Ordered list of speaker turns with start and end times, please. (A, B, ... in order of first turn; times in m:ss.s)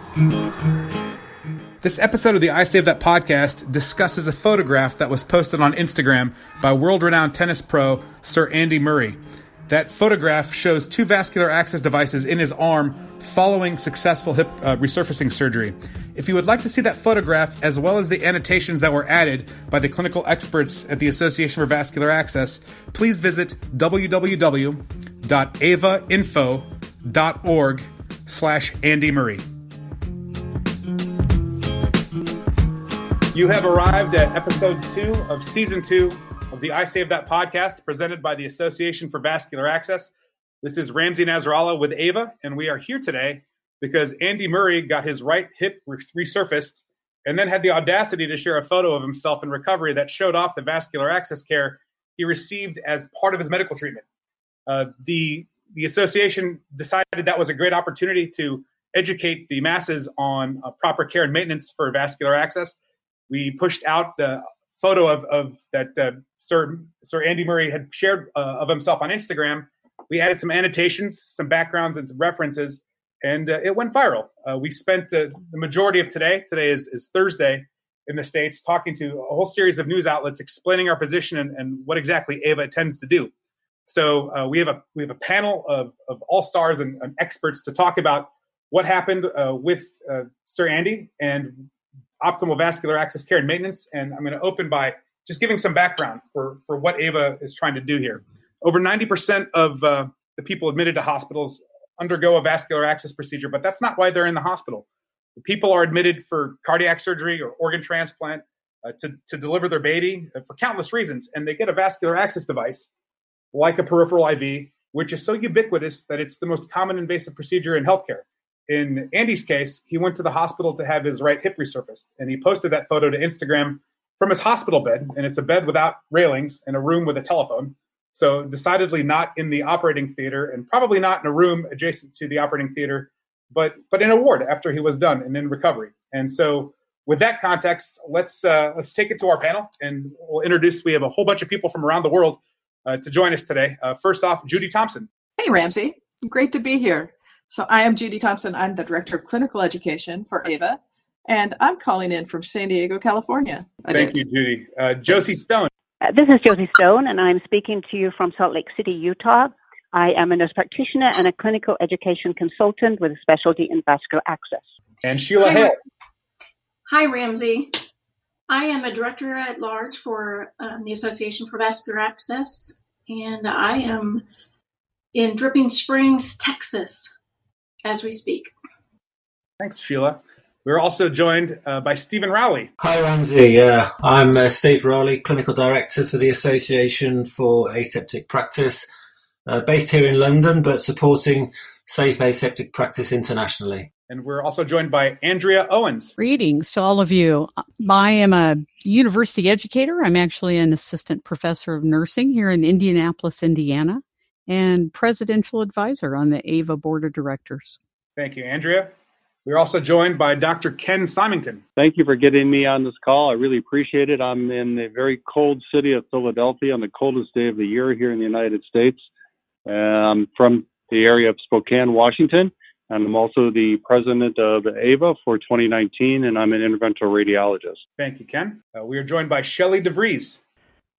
0:01.8-0:29.4 A
0:33.3-0:40.1 A
0:40.6-0:54.0 A
0:54.7-1:02.8 A
1:03.3-1:23.3 A
1:23.8-1:31.7 A
1:32.2-1:52.9 A
1:53.5-2:25.1 A
2:25.4-2:34.2 B
2:33.9-2:35.7 A
2:36.0-2:44.7 C
2:45.0-2:45.8 A
2:45.4-2:45.7 D
2:46.9-2:47.8 D
2:48.5-2:54.2 D
2:55.1-2:57.1 D
2:57.8-2:58.5 D
2:59.6-3:02.7 A
3:02.8-3:08.9 E
3:09.5-3:13.9 E
3:14.1-3:16.1 A
3:16.2-3:27.8 F
3:28.2-3:28.9 A
3:29.4-3:31.6 A
3:31.8-3:39.0 G
3:39.6-3:47.8 G
3:48.0-3:50.4 A